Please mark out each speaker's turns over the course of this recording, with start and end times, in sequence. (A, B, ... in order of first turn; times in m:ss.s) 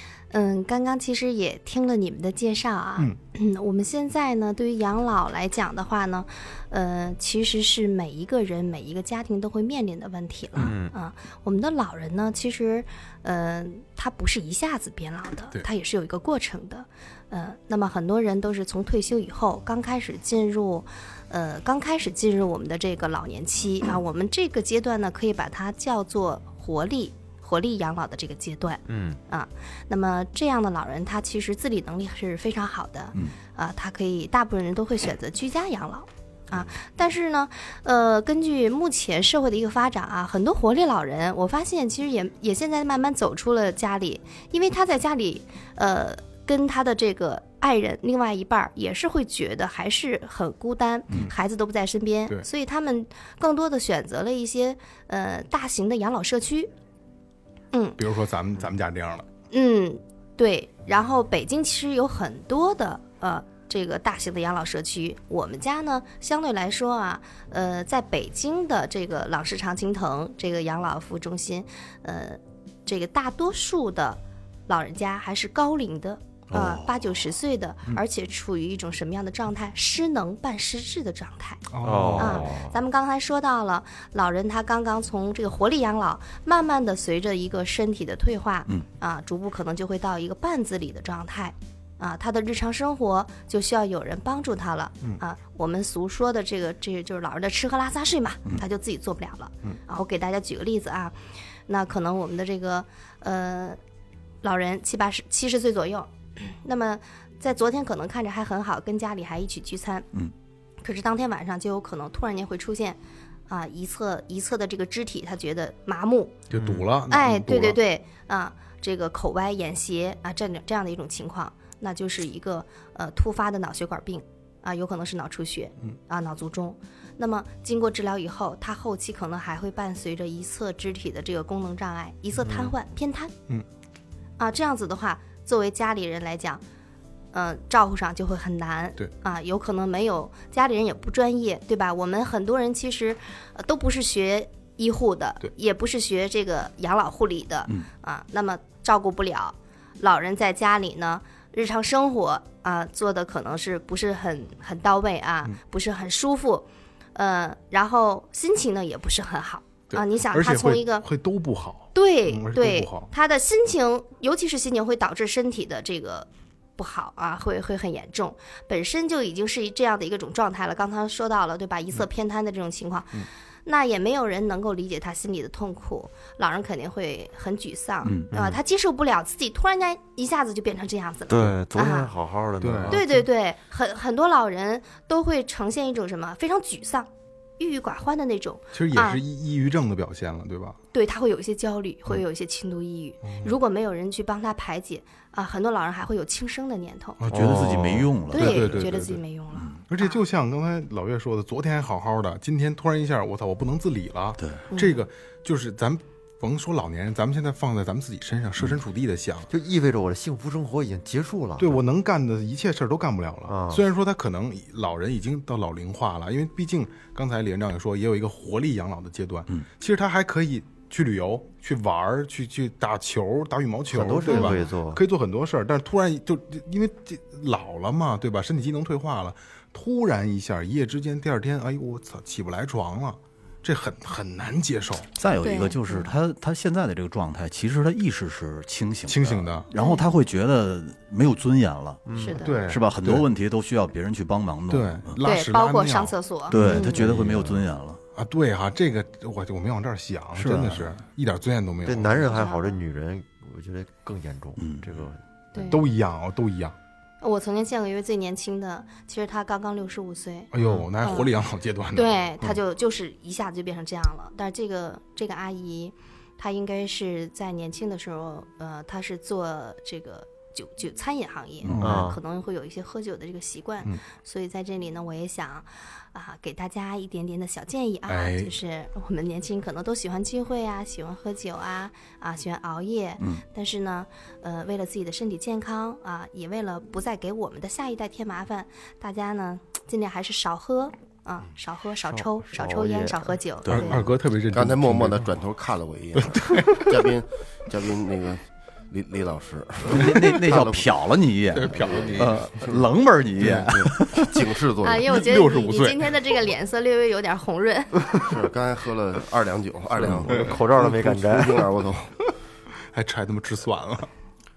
0:00.3-0:56.7 A
0:10.6-0:10.9 B
0:28.9-0:29.2 B
0:57.7-0:58.0 A
0:58.0-0:59.3 C
0:59.5-1:21.6 A
1:21.7-1:22.5 C
1:21.8-1:22.8 B
1:22.2-1:41.2 A
1:41.7-1:43.8 A
1:44.4-1:50.1 A
1:50.8-1:56.4 A
1:56.5-1:57.8 C
1:56.5-1:56.9 D
1:57.1-2:13.3 A
2:12.4-2:12.7 B
2:14.4-2:16.6 A
2:17.3-2:41.1 A
2:39.9-2:43.1 C
2:41.9-3:02.1 A
2:58.0-2:58.3 D
2:58.3-2:58.6 B
3:01.3-3:03.2 B
3:02.6-3:03.1 C
3:02.9-3:09.2 A
3:08.7-3:10.8 C
3:10.9-3:17.2 A
3:13.2-3:13.6 C
3:17.2-3:19.2 C
3:17.3-3:18.9 D
3:17.3-3:18.1 B
3:18.3-3:20.2 A
3:19.9-3:29.5 C
3:24.7-3:25.0 A
3:29.5-3:31.8 B
3:31.6-3:55.1 C
3:33.5-3:33.8 B
3:43.9-3:45.0 B
3:55.2-4:02.0 D
3:55.4-3:56.1 A
3:59.1-3:59.7 C
3:59.7-4:00.1 A
4:02.1-4:02.4 B
4:02.1-4:02.6 A
4:02.4-4:03.3 C
4:02.6-4:05.2 D
4:04.7-4:07.6 C
4:05.2-4:07.0 A
4:06.5-4:08.0 D
4:07.0-4:07.3 B
4:08.2-4:12.3 C
4:10.4-4:10.9 D
4:11.8-4:15.8 B
4:12.2-4:12.8 A
4:14.6-4:15.0 D
4:15.5-4:15.9 A
4:15.7-4:16.8 C
4:17.2-4:21.3 A
4:20.5-4:22.6 C
4:21.9-4:54.1 A
4:31.7-4:32.1 C
4:31.8-4:32.2 B
4:38.1-4:38.5 C
4:52.1-4:53.4 B
4:53.6-4:54.0 D
4:53.7-4:55.3 C
4:54.5-5:00.9 E
4:56.2-4:57.1 C
4:59.9-5:04.4 D
5:01.5-5:02.5 C
5:01.7-5:02.8 E
5:03.4-5:03.9 C
5:03.6-5:05.1 E
5:04.8-5:08.0 A
5:05.1-5:06.2 C
5:08.3-5:12.1 E
5:10.1-5:10.9 C
5:10.3-5:11.6 B
5:12.9-5:14.1 C